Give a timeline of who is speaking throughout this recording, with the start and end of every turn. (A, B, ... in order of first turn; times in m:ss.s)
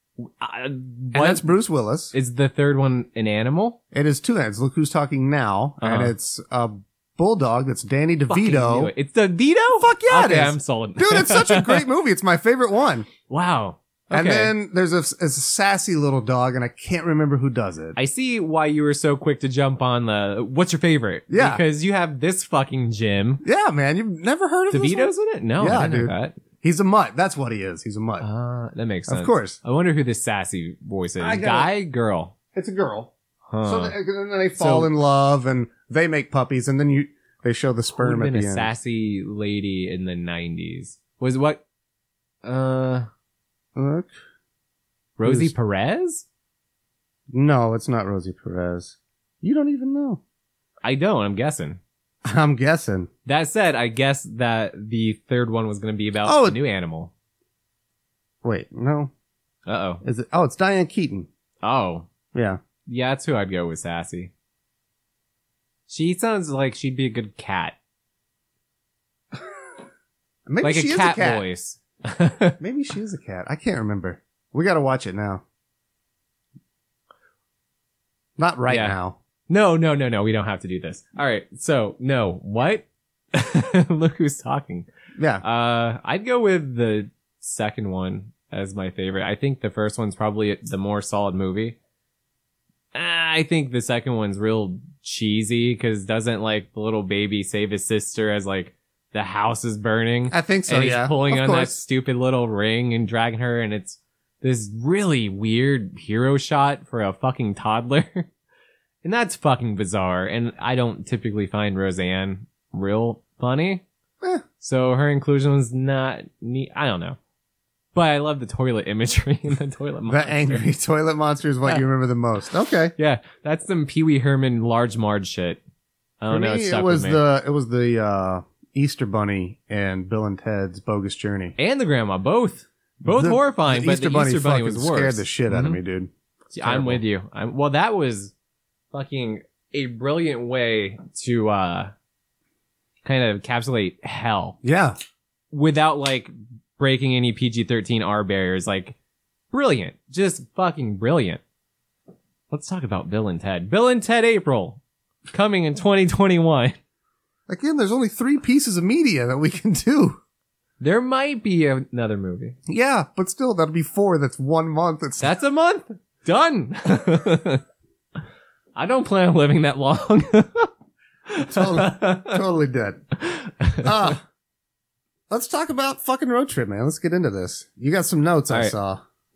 0:00.2-0:01.5 A
0:01.1-0:02.1 B
0:02.1-0:03.8 A
0:03.9-0:08.9 B
0:05.8-0:06.1 A
0:08.3-0:11.8 A
0:09.8-0:13.1 B
0:13.3-0:14.5 A
0:14.1-0:18.0 B
0:18.0-0:23.4 A
0:21.3-0:21.6 B
0:23.4-0:28.3 B
0:24.7-0:26.4 A
0:28.2-0:32.3 A
0:29.1-0:29.6 B
0:31.2-0:31.7 B
0:32.5-0:33.1 B
0:33.5-0:34.0 A
0:33.6-0:38.7 B
0:34.6-0:34.9 A
0:37.9-0:41.6 A
0:42.4-0:43.1 A
0:43.8-0:44.1 B
0:45.2-0:46.2 A
0:45.2-0:45.5 B
0:47.3-0:50.2 B
0:50.8-0:51.8 A
0:52.2-0:53.1 B
0:53.3-0:57.1 A
0:56.2-0:56.6 B
0:58.4-0:59.1 B
0:59.7-1:00.0 A
1:00.0-1:01.3 B
1:01.6-1:02.1 A
1:02.3-1:02.6 B
1:02.9-1:04.3 A
1:05.9-1:07.8 A
1:10.5-1:11.4 B
1:10.6-1:12.6 A
1:12.6-1:15.4 B
1:18.4-1:19.2 B
1:18.7-1:19.0 A
1:19.5-1:24.9 A
1:25.2-1:25.4 B
1:25.4-1:31.8 A
1:33.0-1:48.3 A
1:40.3-1:41.8 B
1:49.0-1:53.8 A
1:54.6-1:57.2 A
1:57.9-2:00.7 A
2:00.1-2:02.9 B
2:03.0-2:05.6 A
2:06.2-2:07.2 A
2:06.3-2:11.6 B
2:11.6-2:15.8 A
2:13.0-2:16.1 B
2:16.6-2:18.3 A
2:16.6-2:17.0 B
2:18.9-2:21.9 A
2:23.0-2:24.6 A
2:24.6-2:25.0 B
2:25.5-2:29.0 A
2:29.5-2:31.4 A
2:32.5-2:36.8 A
2:37.5-2:40.2 B
2:40.8-2:42.6 A
2:42.7-2:45.3 B
2:45.2-2:47.6 A
2:48.8-2:50.7 A
2:51.3-2:52.4 A
2:51.4-2:53.0 B
2:53.2-2:54.2 A
2:53.8-2:54.2 B
2:55.3-2:59.0 B